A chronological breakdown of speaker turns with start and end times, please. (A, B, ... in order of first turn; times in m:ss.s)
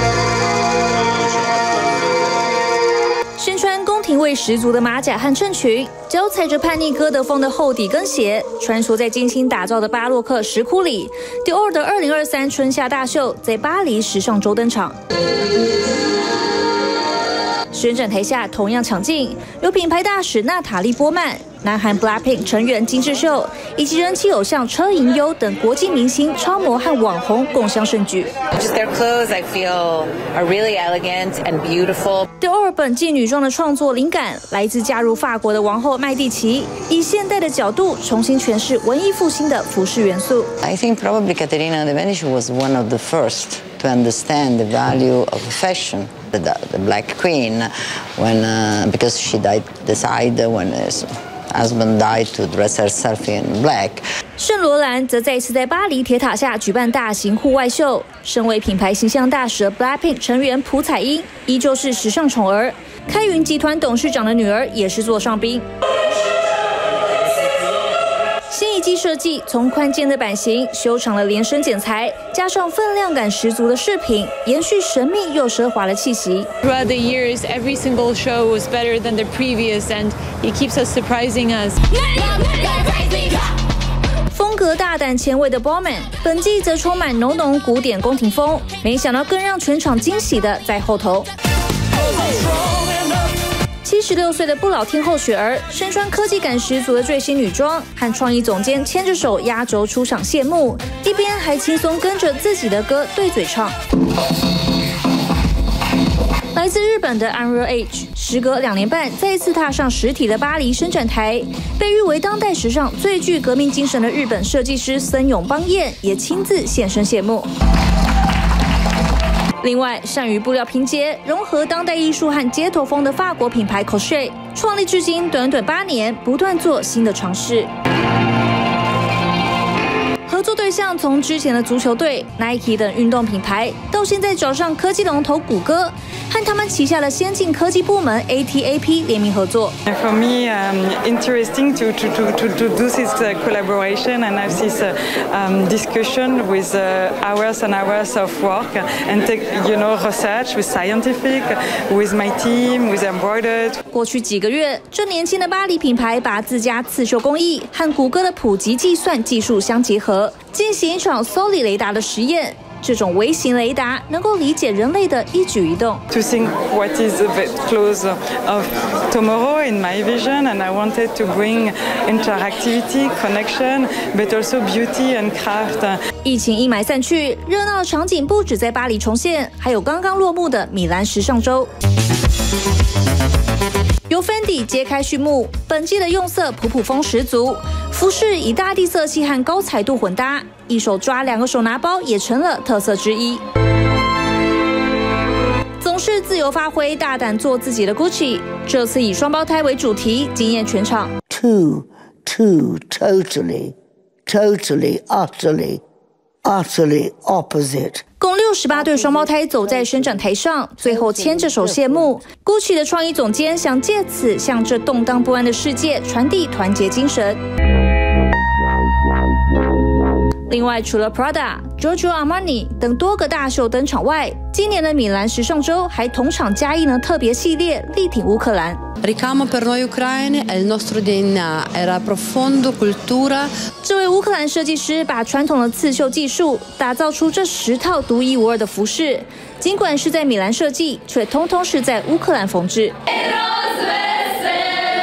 0:03.4-0:15.0 A
0:17.7-0:28.3 A
0:28.6-0:32.2 B
0:32.4-0:40.5 A
0:40.6-0:54.0 C
0:54.4-1:05.7 A
1:08.5-1:16.5 A
1:16.6-1:23.0 D
1:24.3-1:31.3 A
1:33.8-1:43.8 A
1:46.5-1:57.5 A
1:59.6-2:07.7 A
2:10.3-2:19.8 A
2:19.9-2:33.8 E
2:33.9-2:46.0 A
2:46.1-2:56.0 E
2:56.2-3:01.7 A
3:04.1-3:13.4 A
3:15.8-3:21.1 A
3:21.3-3:23.8 F
3:24.3-3:25.8 F
3:26.4-3:28.0 F
3:28.2-3:37.4 A
3:28.7-3:30.2 F
3:30.8-3:32.2 F
3:40.5-3:48.8 A
3:49.0-3:53.5 G
3:53.8-4:03.0 A